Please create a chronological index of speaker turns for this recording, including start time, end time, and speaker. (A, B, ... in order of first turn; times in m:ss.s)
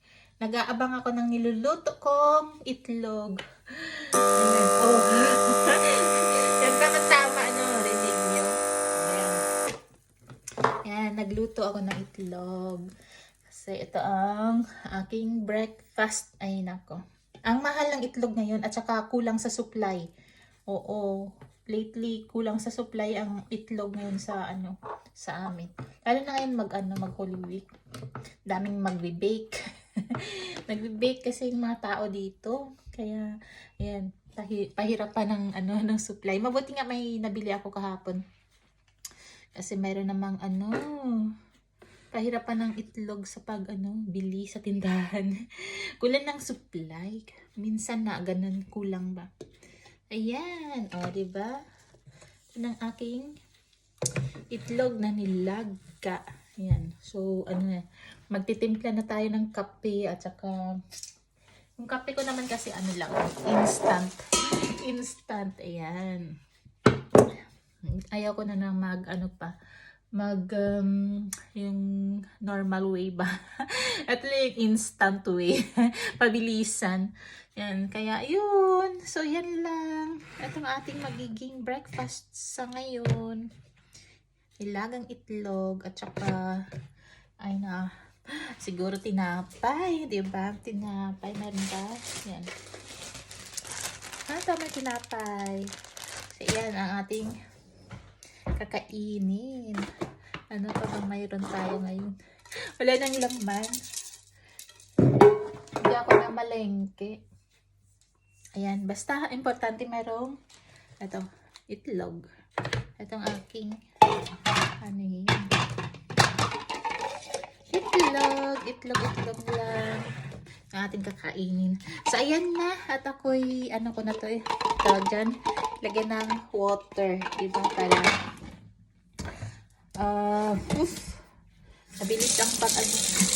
0:00.4-0:09.4 A
0:10.8-0:12.8 A
0:13.5-0:20.0 A
0:20.7-0:27.6 A
0:28.5-0:29.5 A
0:30.0-0:33.3 A
0:33.8-0:38.2 A
0:39.6-0:41.3 A
0:42.1-0:45.3 A
0:46.0-0:49.3 A
0:50.1-0:51.5 A
0:52.6-0:53.3 A
0:54.5-1:00.6 A
1:01.8-1:04.2 A
1:04.8-1:06.3 A
1:08.1-1:09.5 A
1:10.2-1:11.8 A
1:12.4-1:23.4 A
1:24.6-1:26.6 A
1:27.4-1:27.9 A
1:28.6-1:32.5 A
1:34.3-1:35.7 A
1:36.3-1:37.3 A
1:38.6-1:39.8 A
1:40.5-1:42.2 A
1:42.8-1:43.8 A
1:45.8-1:47.2 A
1:48.6-1:50.3 A
1:51.0-1:52.2 A
1:53.0-1:53.7 A
1:54.8-1:55.5 A
1:57.7-2:00.0 A
2:00.7-2:05.3 A
2:05.8-2:08.1 A
2:10.0-2:11.2 A
2:12.0-2:13.0 A